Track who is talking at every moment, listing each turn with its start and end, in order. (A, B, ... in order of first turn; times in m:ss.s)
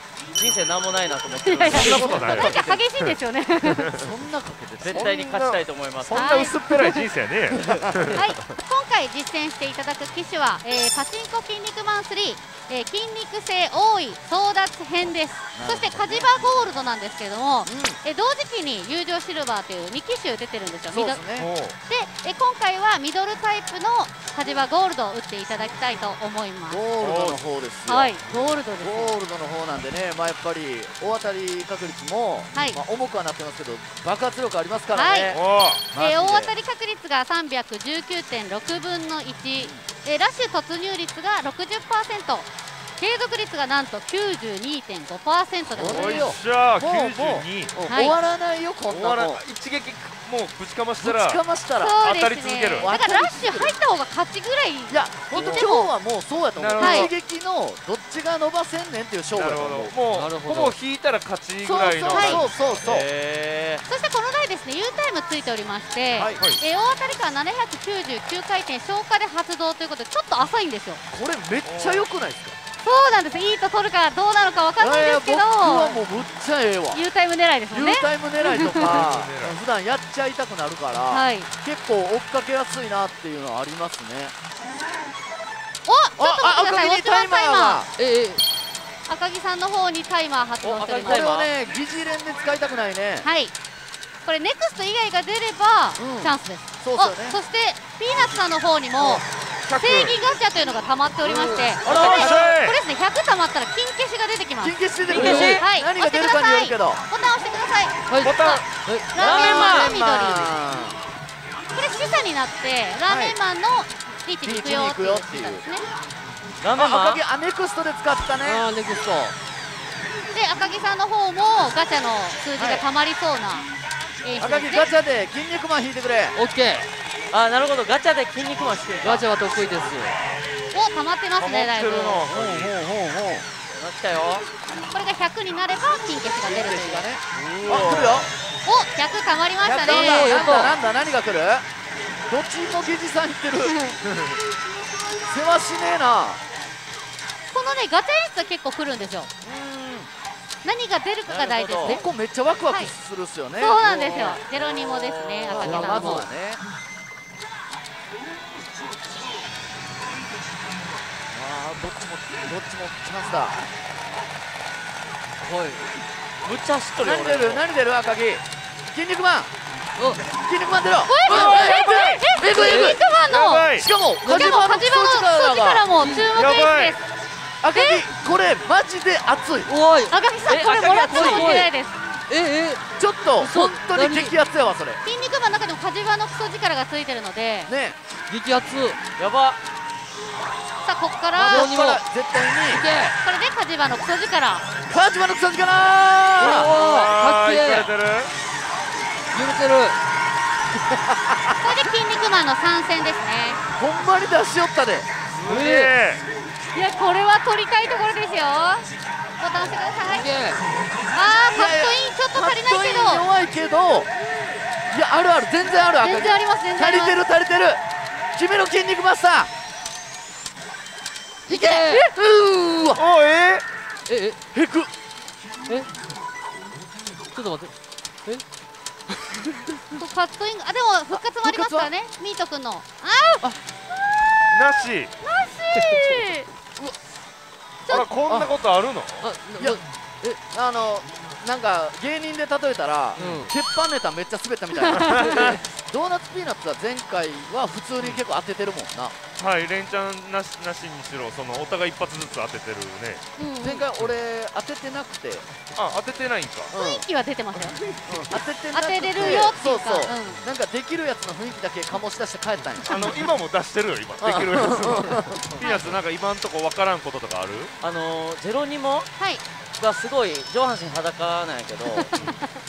0:00.3-0:02.8 A
0:01.4-0:04.0 B
0:01.7-0:03.2 C
0:01.8-0:02.8 D
0:03.7-0:04.0 C
0:03.9-0:05.1 D
0:04.8-0:06.3 A
0:04.9-0:08.2 C
0:06.1-0:07.1 B
0:07.6-0:07.9 D
0:08.1-0:21.2 B
0:15.5-0:16.6 D
0:17.6-0:18.0 D
0:20.9-0:21.5 D
0:21.3-0:21.8 C
0:21.9-0:26.8 B
0:26.7-0:28.1 D
0:27.0-0:27.4 C
0:27.9-0:29.2 B
0:28.8-0:36.5 D
0:32.5-0:32.8 B
0:34.9-0:35.4 B
0:35.3-0:35.9 C
0:35.9-0:42.5 B
0:43.0-0:46.3 B
0:45.8-0:49.4 D
0:45.8-0:47.7 C
0:47.9-0:48.1 B
0:48.9-0:51.4 C
0:51.0-0:52.0 D
0:51.8-0:55.9 B
0:52.0-0:52.9 C
0:52.8-0:53.7 D
0:54.9-0:59.9 D
0:55.3-0:55.7 C
0:56.6-0:57.1 C
0:56.8-0:57.1 B
0:59.3-1:02.8 C
1:00.1-1:00.8 E
1:01.6-1:03.1 D
1:02.1-1:02.4 B
1:02.8-1:03.8 A
1:03.8-1:11.0 B
1:06.1-1:06.4 D
1:11.1-1:12.6 D
1:11.6-1:12.1 C
1:12.8-1:16.0 B
1:14.8-1:17.0 D
1:16.9-1:19.0 B
1:17.7-1:24.3 D
1:18.6-1:19.6 C
1:21.1-1:21.5 B
1:25.8-1:27.8 B
1:26.2-1:27.9 D
1:28.0-1:28.4 E
1:29.1-1:31.3 B
1:30.6-1:31.5 A
1:31.0-1:33.3 D
1:33.2-1:33.5 B
1:34.2-1:39.2 B
1:36.0-1:37.4 D
1:39.0-1:40.2 C
1:39.8-1:48.6 B
1:41.2-1:41.8 E
1:41.8-1:42.3 D
1:41.8-1:42.4 A
1:41.9-1:42.8 C
1:44.6-1:47.0 D
1:45.1-1:45.6 A
1:45.2-1:45.5 E
1:48.1-1:49.1 E
1:48.2-1:48.7 C
1:49.1-1:50.5 B
1:49.1-1:49.9 A
1:49.2-1:51.0 D
1:51.7-1:55.8 B
1:53.0-1:53.4 D
1:54.4-1:55.6 D
1:56.6-1:57.2 A
1:56.7-1:58.6 D
1:58.4-1:59.3 E
2:00.3-2:03.7 B
2:02.6-2:02.8 D
2:04.2-2:04.9 B
2:04.4-2:06.4 D
2:06.3-2:06.9 E
2:07.3-2:09.2 A
2:09.0-2:10.1 E
2:10.7-2:12.3 B
2:11.4-2:12.8 C
2:12.3-2:13.4 D
2:13.7-2:14.4 A
2:14.9-2:17.1 B
2:16.4-2:18.3 D
2:17.4-2:18.2 A
2:17.7-2:18.2 C
2:18.6-2:20.6 B
2:19.6-2:21.6 D
2:19.9-2:20.7 E
2:22.3-2:23.8 D
2:23.6-2:23.9 B
2:25.2-2:26.4 D
2:27.5-2:29.3 B
2:29.4-2:30.1 D
2:30.6-2:32.0 B
2:31.3-2:32.0 A
2:31.8-2:34.4 D
2:32.7-2:32.9 B
2:33.6-2:36.3 B
2:35.5-2:36.6 D
2:35.6-2:36.3 E
2:41.3-2:43.6 D
2:45.4-2:45.8 E
2:46.4-2:47.6 A
2:47.0-2:49.5 D
2:50.3-2:53.0 D
2:51.0-2:53.7 B
2:51.3-2:52.0 C
2:52.5-2:53.0 E
2:53.2-2:53.9 C
2:53.8-2:55.9 D
2:54.2-2:57.0 B
2:56.0-2:56.3 E
2:56.3-2:57.0 C
2:57.6-2:59.7 D
2:57.7-2:58.0 B
2:59.7-3:00.1 E
3:00.1-3:02.0 B
3:00.5-3:01.6 A
3:01.1-3:01.7 E
3:02.3-3:02.8 E
3:03.0-3:05.0 D
3:03.4-3:04.3 E
3:05.0-3:07.7 B
3:07.7-3:08.0 D
3:08.3-3:09.0 E
3:09.2-3:09.6 A
3:10.8-3:11.7 B
3:11.4-3:12.0 E
3:11.4-3:12.9 D
3:12.7-3:13.1 E
3:13.2-3:14.6 B
3:14.9-3:16.7 D
3:16.4-3:17.9 E
3:16.4-3:18.3 C
3:19.3-3:20.0 E
3:20.9-3:21.6 D
3:21.6-3:23.6 B
3:23.8-3:25.1 D
3:25.3-3:26.2 C
3:25.4-3:25.9 E
3:26.7-3:28.9 B
3:29.4-3:30.3 B
3:30.1-3:30.6 E
3:31.1-3:33.2 B
3:31.5-3:34.1 D
3:34.9-3:37.8 D
3:36.0-3:37.2 B
3:38.3-3:39.5 D
3:41.5-3:43.0 D
3:41.5-3:42.1 B
3:41.6-3:42.0 E
3:43.0-3:43.6 C
3:44.1-3:44.4 E
3:44.5-3:44.9 D
3:47.3-3:47.7 E
3:50.0-3:53.4 B
3:51.1-3:51.9 D
3:54.5-3:55.1 C
3:55.2-3:56.5 B
3:57.9-3:59.2 C
3:58.2-3:58.5 D
3:59.2-3:59.8 E
3:59.6-4:09.2 D
4:03.2-4:03.5 E
4:04.9-4:05.5 B
4:04.9-4:05.5 C
4:09.4-4:13.2 C
4:13.4-4:13.8 B
4:13.6-4:15.5 D
4:15.8-4:16.7 C
4:16.7-4:17.0 D
4:16.7-4:17.8 B
4:18.1-4:23.1 D
4:18.7-4:20.4 B
4:19.2-4:19.4 C
4:22.8-4:27.7 C
4:24.2-4:25.4 D
4:25.6-4:26.0 B
4:27.8-4:29.1 A
4:29.2-4:29.4 B
4:29.8-4:32.1 A
4:32.1-4:32.5 B